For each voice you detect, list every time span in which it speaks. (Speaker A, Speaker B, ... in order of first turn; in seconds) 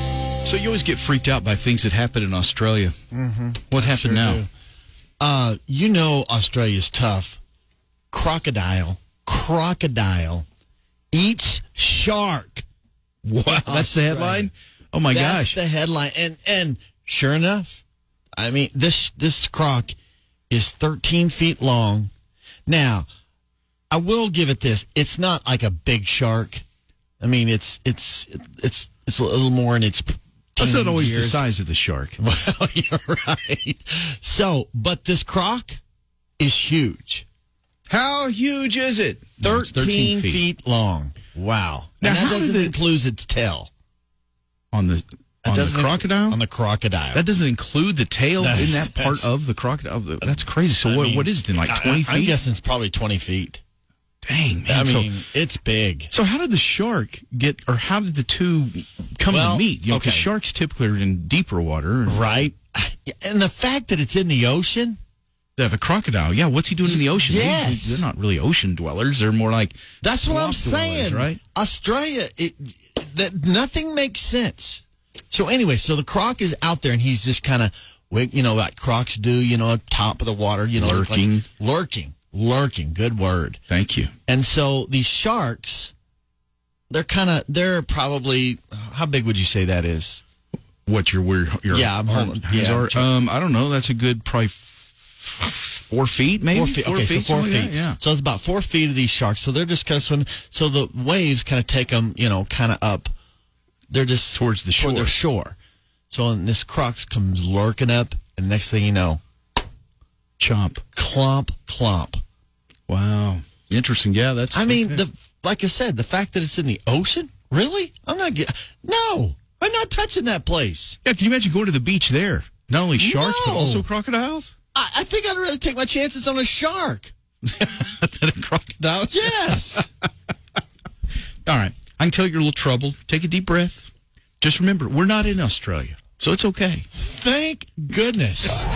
Speaker A: 0.4-3.0, 3.7-4.4, 13.2-15.6, 30.6-32.2, 37.9-40.4, 42.0-42.7, 44.7-46.4, 47.1-52.3, 54.2-55.1, 56.1-62.5, 65.6-71.4, 80.8-81.4, 83.7-84.1, 90.8-98.0, 104.3-105.1, 110.4-110.8, 112.9-115.0, 121.0-124.5, 127.5-129.9, 131.4-133.9, 134.4-136.8
Speaker B: 3.1-4.5, 5.2-7.4, 8.1-10.4, 11.1-12.6, 13.5-14.5, 15.1-17.8, 18.3-19.9, 20.5-22.1, 22.7-23.1, 23.9-26.6, 27.2-31.4, 32.2-35.8, 36.4-37.2, 39.4-43.7, 45.4-47.2, 48.4-49.3, 50.8-53.6, 54.7-56.1, 59.3-60.3, 62.0-65.0, 66.9-68.0, 70.0-83.6, 84.3-85.9, 86.9-90.2, 91.7-93.1, 96.5-103.1, 103.9-105.6, 106.1-109.2, 110.9-112.2, 114.5-121.0, 123.0-123.9, 124.7-127.1, 129.1-129.9, 136.9-138.6